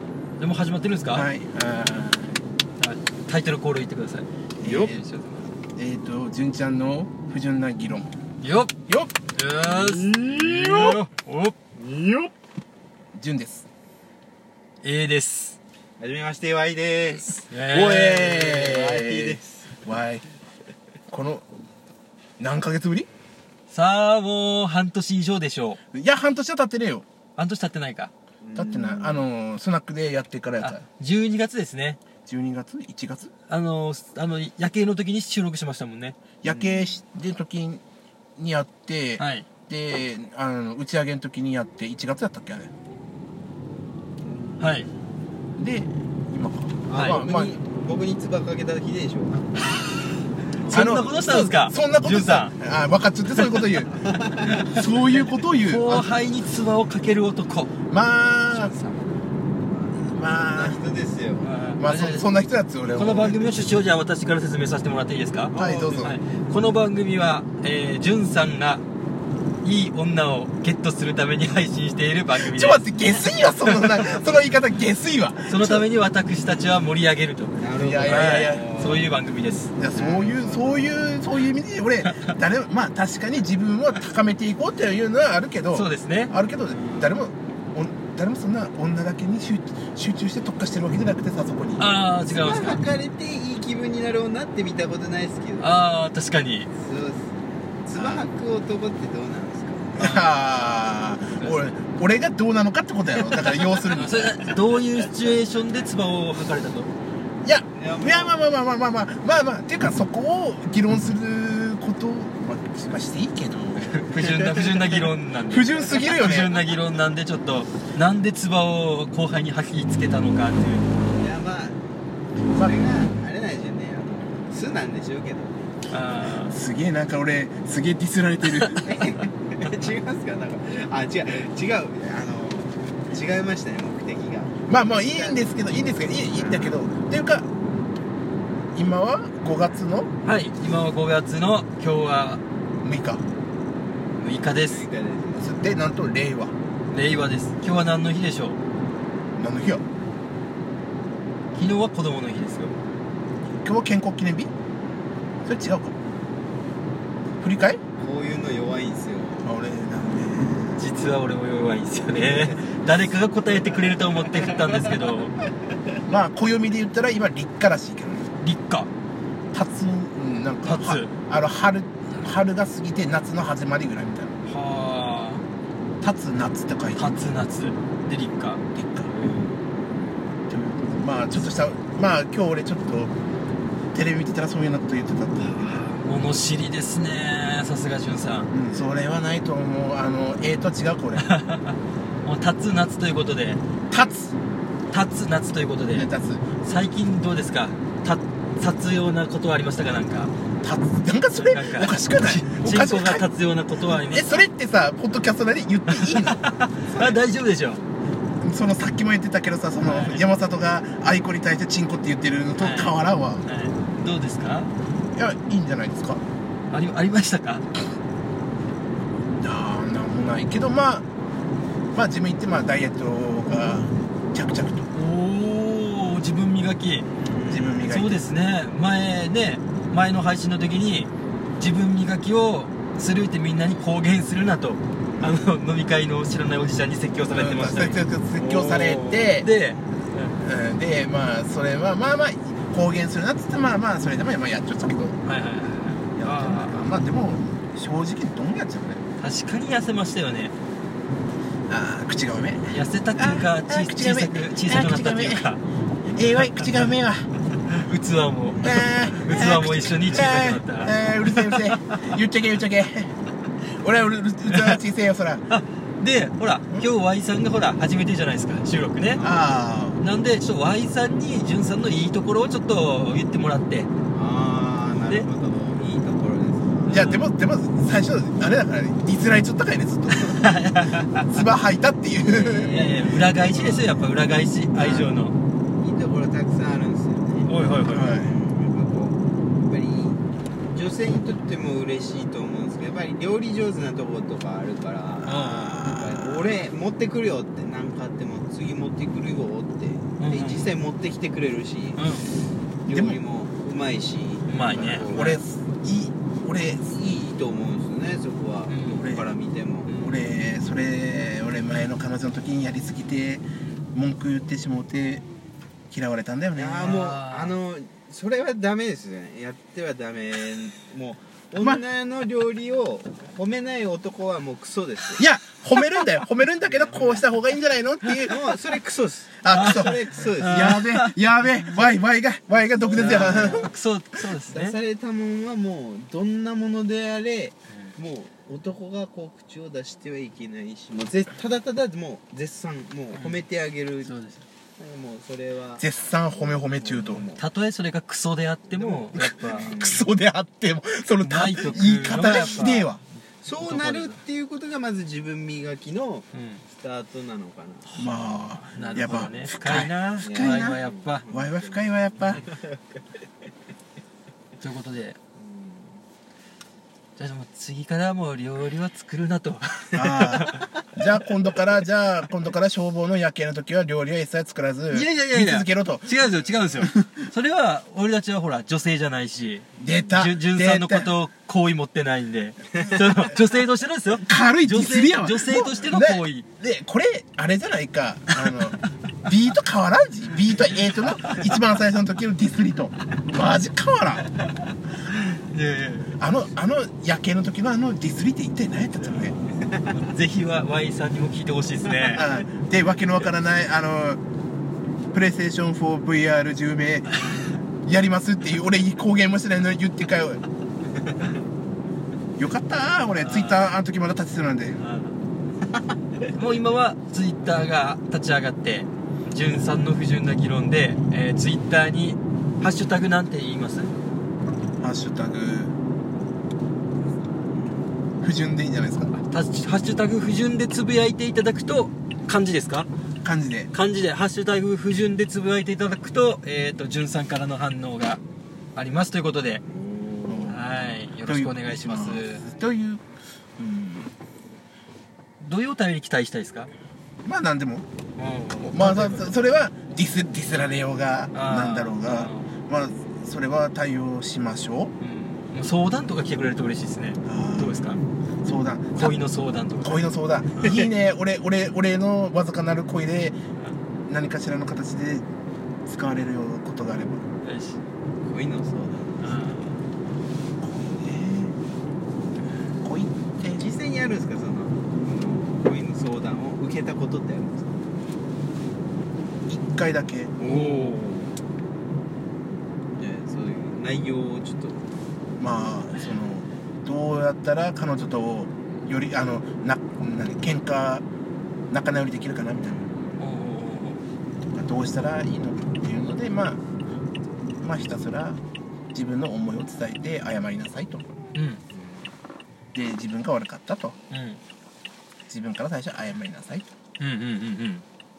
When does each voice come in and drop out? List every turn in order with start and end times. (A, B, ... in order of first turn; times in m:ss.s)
0:00.4-0:01.2 A
0:01.1-0:02.4 B
0:02.8-0:05.5 A
0:04.6-0:05.0 B
0:05.8-0:08.1 B
0:08.4-0:08.7 A
0:08.9-0:09.1 B
0:09.3-0:11.6 A
0:09.7-0:10.9 C
0:10.5-0:11.0 B
0:11.8-0:12.3 C
0:13.1-0:13.7 B
0:14.8-0:15.6 A
0:16.0-0:19.6 C
0:17.5-0:18.8 A
0:17.7-0:20.2 B
0:21.1-0:21.4 B
0:22.4-0:23.1 B
0:23.7-0:25.8 A
0:25.9-0:27.0 B
0:27.4-0:28.1 A
0:28.4-0:29.2 C
0:28.5-0:30.8 B
0:30.6-0:32.0 A
0:32.2-0:33.3 B
0:33.5-0:36.2 A
0:36.4-0:37.8 B
0:36.4-0:37.0 C
0:38.4-0:42.7 B
0:39.2-0:39.5 A
0:44.6-0:44.9 A
0:45.6-0:47.6 B
0:46.9-0:49.8 C
0:46.9-0:47.2 A
0:50.5-0:51.2 C
0:50.6-0:52.5 A
0:50.7-0:56.1 B
0:53.3-0:54.8 A
0:54.0-0:54.7 C
0:55.5-0:57.7 A
0:57.9-0:58.8 B
0:58.3-1:01.6 C
1:00.1-1:00.8 B
1:01.4-1:02.4 A
1:01.8-1:03.6 B
1:02.9-1:08.8 A
1:05.5-1:06.2 B
1:05.6-1:06.0 C
1:09.6-1:12.8 A
1:12.4-1:15.9 B
1:13.6-1:14.1 A
1:15.5-1:19.7 A
1:17.6-1:19.1 C
1:17.8-1:18.7 B
1:19.8-1:32.0 B
1:19.9-1:21.0 C
1:25.7-1:26.3 A
1:26.6-1:27.3 C
1:31.8-1:32.8 A
1:32.3-1:35.8 C
1:35.6-1:36.7 A
1:36.7-1:40.3 C
1:37.9-1:38.2 B
1:40.0-1:44.4 B
1:43.5-1:46.9 A
1:47.4-1:54.1 B
1:47.7-1:48.4 C
1:53.9-2:00.9 A
1:54.3-1:54.6 C
1:55.5-1:56.7 B
2:01.1-2:01.8 C
2:02.5-2:05.7 C
2:05.9-2:06.6 A
2:06.4-2:09.1 B
2:08.8-2:15.5 C
2:14.7-2:17.5 B
2:16.2-2:16.8 C
2:18.7-2:20.1 B
2:20.2-2:22.4 A
2:22.8-2:23.2 B
2:24.2-2:25.6 C
2:24.2-2:24.9 A
2:25.4-2:26.5 B
2:26.9-2:28.6 A
2:29.4-2:29.8 B
2:31.5-2:32.7 A
2:33.6-2:34.5 B
2:35.4-2:35.9 B
2:37.4-2:37.8 B
2:38.0-2:39.6 C
2:39.4-2:40.8 B
2:40.8-2:45.3 A
2:42.4-2:42.8 C
2:46.0-2:48.3 B
2:48.4-2:48.9 A
2:49.5-2:54.3 B
2:50.6-2:51.1 A
2:54.4-2:55.4 A
2:56.0-2:57.3 B
2:56.9-2:58.6 A
2:58.7-2:59.1 B
2:59.2-2:59.5 A
3:00.5-3:03.1 B
3:03.9-3:05.8 B
3:05.4-3:08.5 A
3:08.5-3:11.3 B
3:11.2-3:13.6 A
3:13.9-3:14.3 B
3:14.9-3:16.1 A
3:15.9-3:16.4 B
3:16.6-3:20.3 A
3:20.6-3:23.3 B
3:21.3-3:24.4 A
3:23.9-3:26.4 B
3:25.9-3:27.8 A
3:26.9-3:27.2 C
3:28.4-3:33.4 B
3:29.8-3:30.2 A
3:32.6-3:34.7 A
3:35.1-3:36.2 B
3:36.7-3:37.7 A
3:39.4-3:41.0 B
3:41.9-3:44.9 B
3:44.9-3:47.0 A
3:47.2-3:47.9 C
3:47.5-3:48.2 B
3:47.9-4:00.4 A
3:57.3-3:59.5 B
4:00.4-4:05.2 B
4:05.2-4:06.9 A
4:06.1-4:09.0 B
4:09.2-4:10.5 A
4:11.7-4:15.5 B
4:12.7-4:15.6 A
4:16.1-4:17.3 B
4:16.2-4:16.8 A
4:17.7-4:22.0 A
4:18.6-4:23.1 B
4:23.8-4:25.4 B
4:24.5-4:24.8 A
4:25.5-4:29.2 A
4:29.1-4:29.5 C
4:29.2-4:30.0 B
4:30.0-4:33.9 A
4:34.1-4:37.1 C
4:36.9-4:37.3 A
4:36.9-4:42.8 B
4:40.1-4:41.2 A
4:42.2-4:44.1 C
4:42.6-4:45.3 A
4:44.7-4:45.3 C
4:45.8-5:02.2 C
4:47.4-4:48.2 A
4:47.9-4:48.3 B
4:55.2-4:55.8 A
4:55.5-4:56.5 B
5:00.2-5:00.7 A
5:02.0-5:02.4 A
5:02.8-5:05.3 C
5:02.9-5:03.2 B
5:04.5-5:05.4 A
5:05.0-5:06.9 B
5:06.8-5:09.9 C
5:08.7-5:09.2 A
5:09.9-5:10.2 A
5:10.0-5:15.2 B
5:15.9-5:17.0 B
5:16.6-5:25.3 C
5:16.8-5:17.5 A
5:25.2-5:28.4 B
5:26.6-5:27.2 C
5:28.2-5:30.7 C
5:29.4-5:33.7 B
5:29.4-5:31.2 A
5:32.5-5:33.7 C
5:32.9-5:34.8 A
5:34.4-5:44.1 C
5:43.1-5:43.4 A
5:44.0-5:44.4 A
5:44.8-5:47.4 C
5:45.8-5:47.3 B
5:47.4-5:49.7 A
5:48.7-5:50.1 C
5:49.2-5:53.0 B
5:51.2-5:52.9 A
5:51.6-5:52.8 C
5:53.4-5:58.2 C
5:53.5-5:54.2 A
5:56.3-5:56.6 A
5:57.9-6:01.2 A
5:57.9-6:00.8 B
5:58.8-5:59.3 C
6:00.2-6:03.0 C
6:01.3-6:02.4 B
6:04.6-6:05.2 A
6:05.4-6:06.0 C
6:07.2-6:10.6 A
6:10.0-6:16.1 B
6:10.4-6:10.8 C
6:14.9-6:26.4 A
6:16.8-6:17.1 B
6:19.8-6:21.1 B
6:24.2-6:34.3 B
6:35.3-6:36.1 A
6:36.2-6:39.4 B
6:39.6-6:40.0 C
6:39.9-6:42.3 A
6:42.0-6:44.2 B
6:45.1-6:47.2 B
6:47.8-6:50.4 B
6:52.4-6:54.8 B
6:53.2-6:53.7 A
6:54.8-6:55.1 A
6:55.7-6:56.3 C
6:56.3-7:03.9 A
7:04.8-7:05.8 B
7:08.2-7:09.1 B
7:09.1-7:12.9 A
7:13.2-7:13.7 B
7:13.7-7:18.2 A
7:18.7-7:19.6 A
7:19.7-7:20.6 C
7:20.3-7:23.0 B
7:20.5-7:22.4 A
7:23.6-7:24.1 B
7:25.4-7:26.7 A
7:27.2-7:27.8 B
7:28.2-7:29.3 A
7:28.6-7:34.9 B
7:31.3-7:32.5 A
7:35.0-7:38.0 A
7:37.2-7:39.2 B
7:38.9-7:40.0 A
7:39.8-7:43.4 B
7:44.1-7:45.2 B
7:45.8-7:47.2 B
7:47.4-7:47.8 A
7:48.2-7:49.7 C
7:49.2-7:49.7 A
7:50.6-7:51.6 B
7:52.8-7:53.6 B
7:53.6-7:58.0 C
7:59.5-8:00.4 B
8:00.4-8:01.4 C
8:00.4-8:01.0 A
8:03.0-8:04.8 C
8:05.4-8:11.0 B
8:11.7-8:12.8 B
8:12.6-8:13.0 C
8:13.2-8:14.0 A
8:14.5-8:16.6 B
8:17.6-8:18.4 B
8:18.9-8:21.0 B
8:21.3-8:21.6 A
8:22.7-8:24.0 B
8:24.1-8:24.4 A
8:25.3-8:26.6 B
8:27.0-8:27.8 A